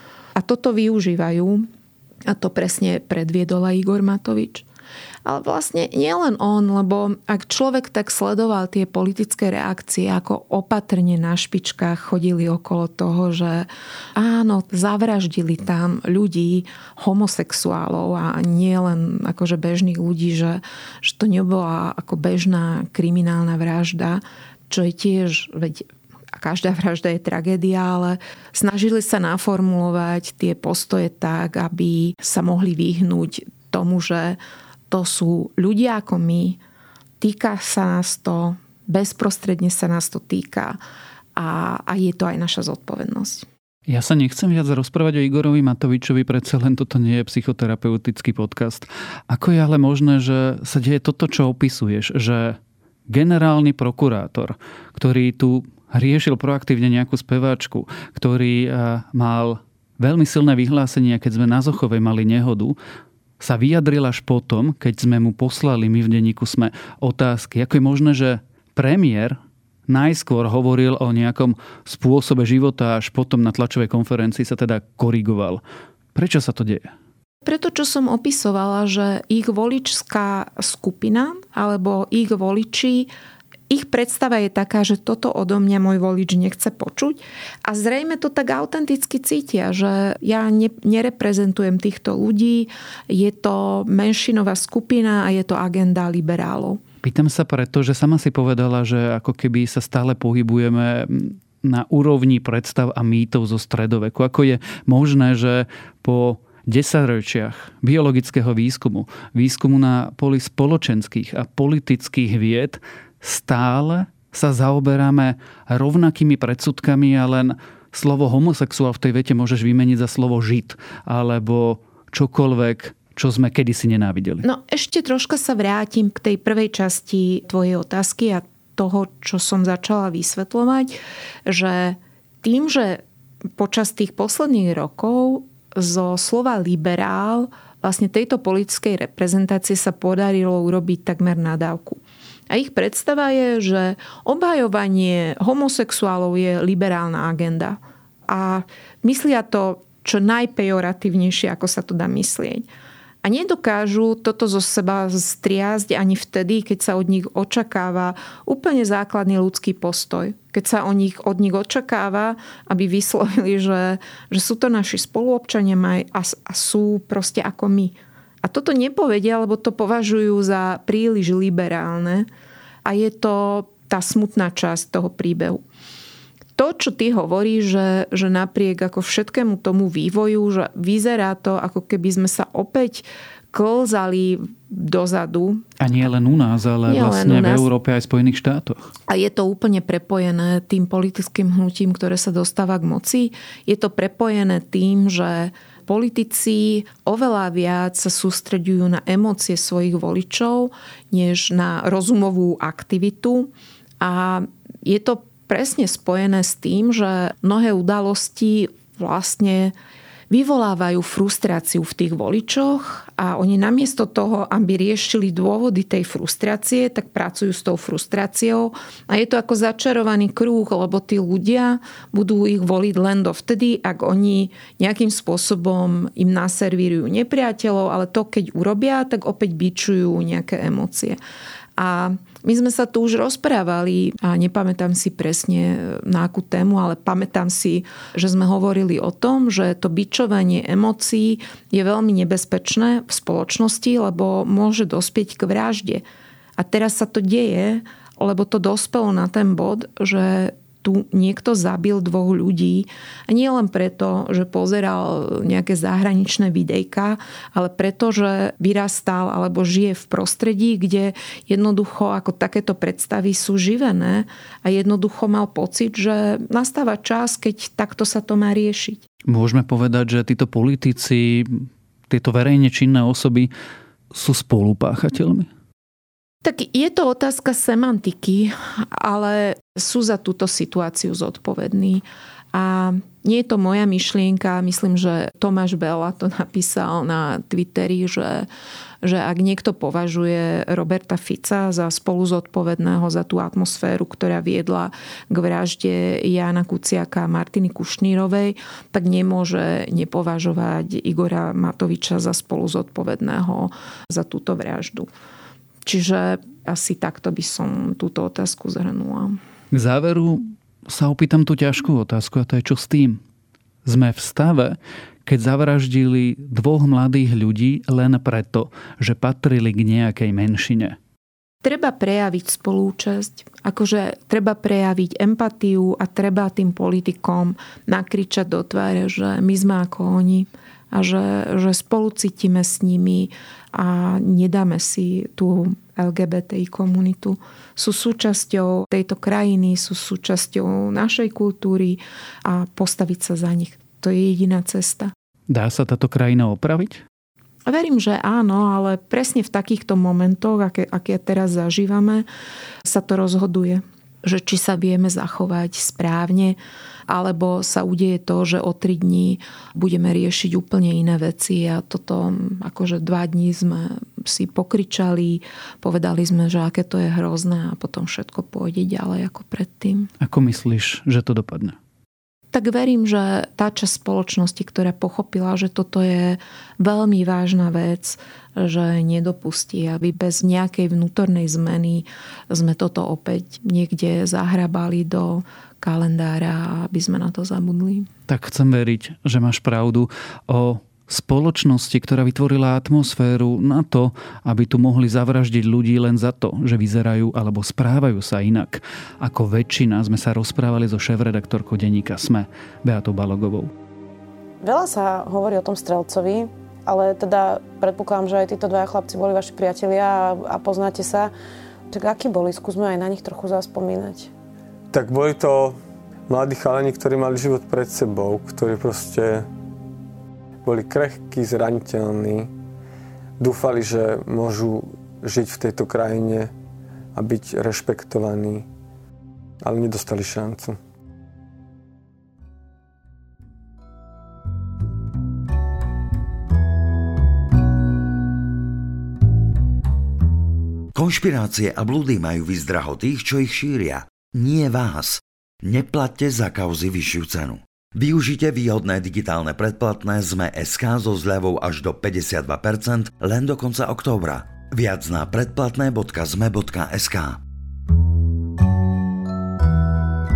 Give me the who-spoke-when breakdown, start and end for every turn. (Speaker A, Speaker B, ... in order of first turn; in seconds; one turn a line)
Speaker A: 0.3-1.7
Speaker A: 2.3-4.7
Speaker A: 5.2-34.4
Speaker A: 34.9-36.6
Speaker A: 37.2-40.8
Speaker A: 41.4-43.5
Speaker B: 43.9-52.6
Speaker B: 53.1-62.8
Speaker B: 63.4-75.6
Speaker B: 76.1-76.9
Speaker A: 77.4-83.1
Speaker A: 83.7-96.8
Speaker B: 97.0-124.5
Speaker A: 124.4-133.0
Speaker A: 133.6-152.7
Speaker A: 153.2-172.3
Speaker A: 172.8-175.6
Speaker A: 176.5-185.6
Speaker B: 185.8-188.9
Speaker A: 186.8-187.7
Speaker A: 189.1-209.7
Speaker A: 210.3-231.2
Speaker A: 231.8-246.0
Speaker A: 246.6-269.0
Speaker B: 269.3-273.5
Speaker B: 274.1-275.5
Speaker A: 276.4-288.5
Speaker A: 289.0-305.1
Speaker A: 305.8-309.4
Speaker B: 309.7-313.2
Speaker B: 313.8-321.0
Speaker A: 321.6-345.1
Speaker B: 345.5-347.0
Speaker A: 347.6-352.2
Speaker A: 352.8-370.1
Speaker B: 370.2-371.8
Speaker A: 372.5-388.1
Speaker B: 388.3-403.7
Speaker C: 404.6-411.3
Speaker C: 411.9-414.3
Speaker D: 414.9-419.5
Speaker D: 420.6-422.5
Speaker D: 423.4-426.5
Speaker D: 427.1-428.6
Speaker D: 429.6-430.8
Speaker E: 440.9-457.4